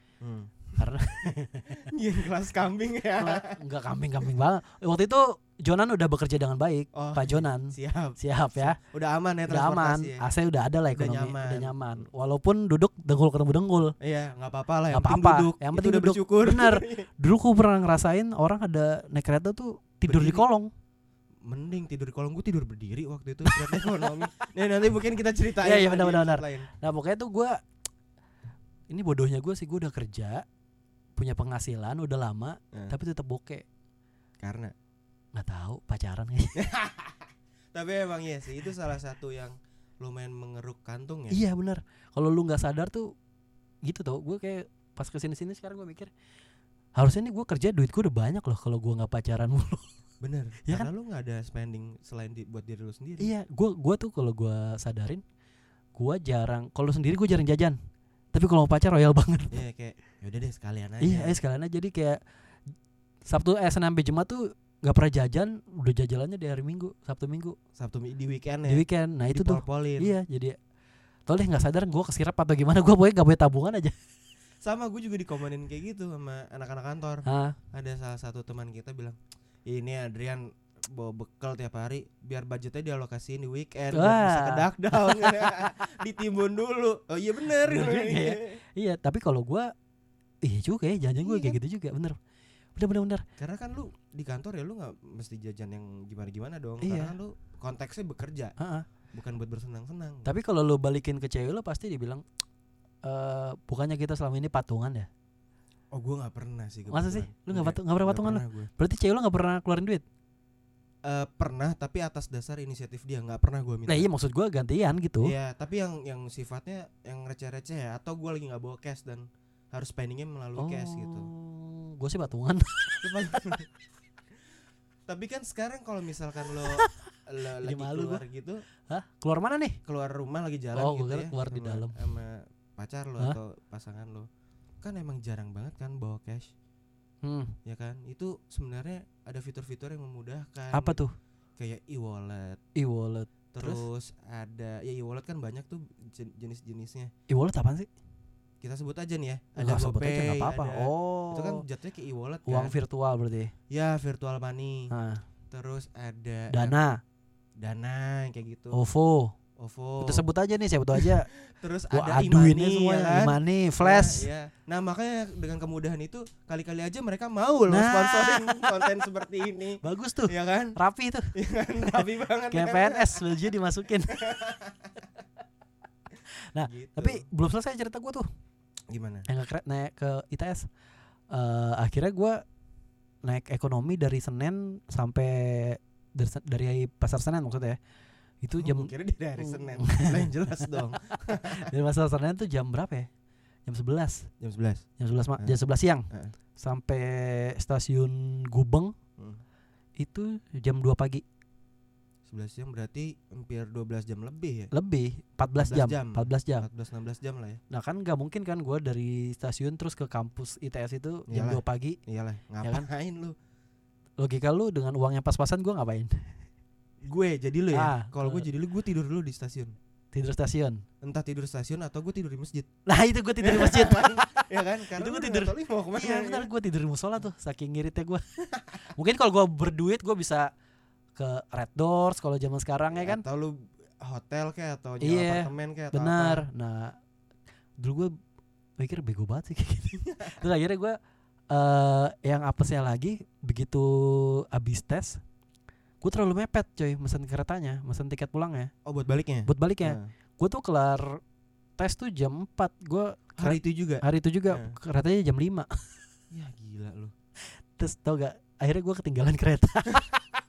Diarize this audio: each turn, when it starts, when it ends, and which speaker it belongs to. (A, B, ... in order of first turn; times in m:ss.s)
0:00.2-0:00.8 A
0:00.8-0:01.9 B
0:01.8-0:03.5 A
0:03.2-0:08.8 B
0:07.0-0:10.3 A
0:09.5-0:13.9 B
0:10.9-0:12.0 A
0:14.0-0:17.1 A
0:14.9-0:20.7 B
0:20.1-0:20.4 A
0:21.5-0:26.7 A
0:23.5-0:24.1 B
0:25.6-0:27.6 B
0:28.9-0:30.4 B
0:31.2-0:33.6 B
0:34.4-0:34.7 A
0:35.4-0:36.6 B
0:36.6-0:41.4 A
0:41.3-0:43.1 B
0:43.8-0:46.1 B
0:47.0-0:49.9 B
0:50.2-0:53.3 A
0:50.6-0:50.9 B
0:53.2-0:55.2 B
0:56.0-0:57.8 B
0:58.3-0:59.6 B
0:59.5-1:01.4 A
1:01.0-1:02.2 B
1:03.3-1:07.6 B
1:07.8-1:10.1 A
1:08.7-1:10.6 B
1:11.3-1:14.0 B
1:14.6-1:28.6 A
1:17.3-1:17.6 B
1:23.9-1:25.7 B
1:27.6-1:29.7 B
1:30.4-1:32.2 B
1:31.2-1:31.6 A
1:32.8-1:33.2 B
1:33.4-1:38.5 A
1:36.8-1:37.2 B
1:38.6-1:38.8 B
1:39.1-1:40.3 A
1:40.3-1:42.2 B
1:43.0-1:45.1 B
1:45.9-1:48.7 A
1:46.9-1:50.0 B
1:51.0-1:54.1 A
1:53.9-1:55.3 B
1:55.2-2:01.3 A
2:00.6-2:03.6 B
2:03.0-2:03.7 A
2:05.1-2:08.6 A
2:06.6-2:07.0 B
2:07.6-2:08.2 B
2:08.9-2:09.8 B
2:09.9-2:14.3 A
2:10.8-2:12.0 B
2:14.8-2:16.5 A
2:17.2-2:17.5 B
2:17.6-2:21.0 A
2:20.7-2:21.1 B
2:21.6-2:22.6 A
2:22.8-2:23.8 B
2:23.5-2:27.1 A
2:27.3-2:27.9 B
2:28.6-2:32.7 A
2:29.6-2:31.6 B
2:32.5-2:33.5 B
2:33.7-2:34.9 A
2:34.9-2:35.2 B
2:35.5-2:36.8 A
2:36.5-2:37.0 B
2:37.6-2:38.8 A
2:38.7-2:39.3 B
2:39.6-2:40.2 A
2:40.0-2:41.3 B
2:41.0-2:50.8 A
2:41.9-2:44.3 B
2:47.7-2:48.9 B
2:49.8-2:54.2 B
2:51.4-2:53.2 A
2:54.1-2:54.9 A
2:56.5-2:58.3 B
2:56.7-2:57.2 A
2:58.9-2:59.3 A
2:59.3-3:00.7 B
3:01.3-3:02.4 B
3:03.2-3:07.8 B
3:08.4-3:10.7 B
3:08.6-3:11.7 A
3:11.4-3:13.1 B
3:13.7-3:14.3 B
3:14.4-3:14.9 A
3:15.0-3:18.9 B
3:20.0-3:21.2 B
3:22.3-3:24.7 A
3:24.7-3:26.7 B
3:25.6-3:27.6 A
3:27.7-3:32.0 B
3:31.3-3:33.4 A
3:32.6-3:32.9 B
3:34.2-3:36.3 B
3:37.0-3:39.7 A
3:37.7-3:38.5 B
3:40.1-3:40.8 B
3:41.0-3:42.7 A
3:42.9-3:44.4 B
3:43.4-3:46.5 A
3:45.0-3:48.2 B
3:48.9-3:50.5 B
3:51.2-3:53.2 B
3:52.9-3:56.5 A
3:55.0-3:57.0 B
3:57.8-3:58.1 B
3:58.8-4:01.0 B
4:01.5-4:05.2 B
4:06.0-4:08.7 B
4:08.8-4:10.1 A
4:09.5-4:11.2 B
4:11.8-4:15.7 B
4:13.4-4:14.8 A
4:16.3-4:17.1 A
4:17.8-4:20.2 B